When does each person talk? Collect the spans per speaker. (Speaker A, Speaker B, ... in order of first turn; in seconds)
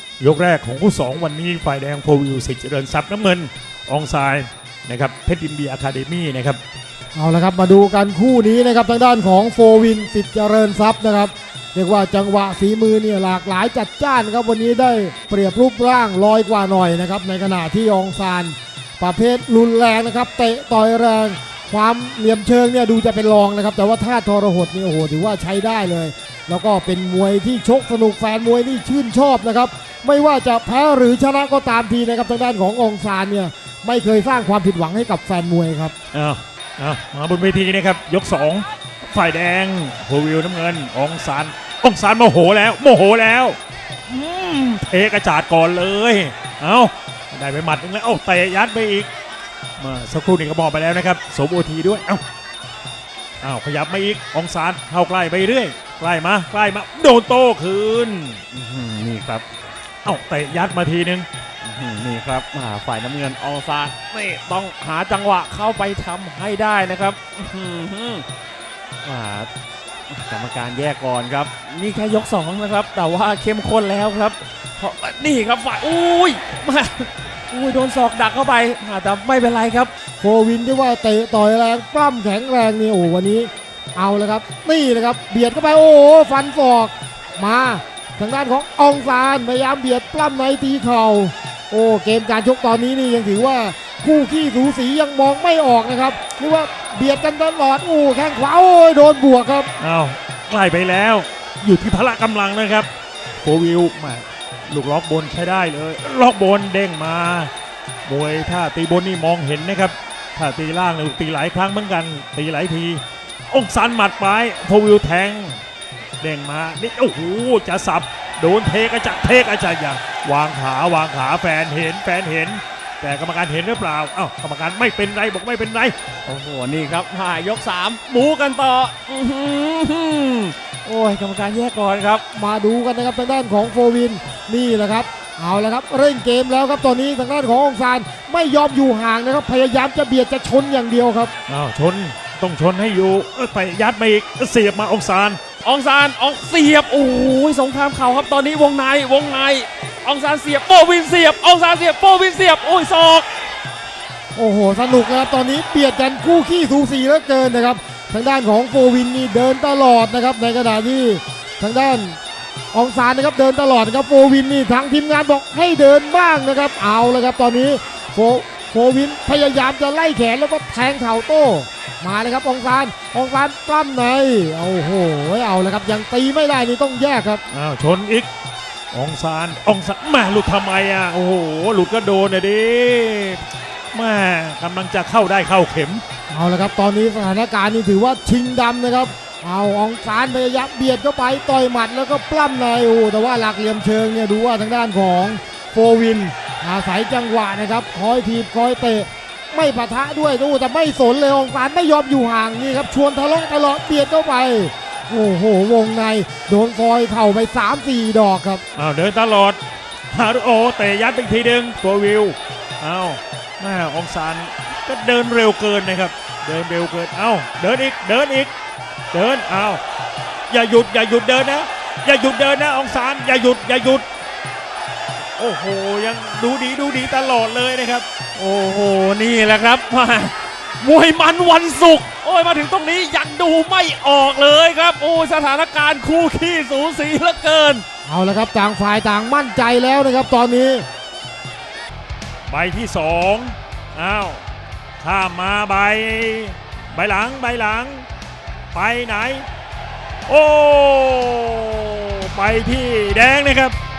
Speaker A: 0.2-6.6, 36.1-43.6, 44.1-49.1, 49.8-52.2, 53.4-58.5, 60.0-61.3, 99.8-102.9, 103.4-107.5, 108.1-115.6, 116.2-126.0, 141.5-145.4, 177.5-178.3, 178.9-186.0, 208.8-209.6, 210.1-218.5, 219.1-219.8, 220.5-224.1, 225.4-228.1, 242.5-244.4, 245.0-248.1, 248.7-249.5, 250.3-253.8
Speaker B: 7.2-35.9, 80.2-99.7, 132.3-141.3, 154.3-162.2, 162.7-177.4, 186.3-208.6, 238.1-240.9
Speaker C: 58.5-59.4, 61.6-68.2, 69.0-69.5, 70.1-79.9, 126.3-132.2, 145.6-153.3, 228.4-237.8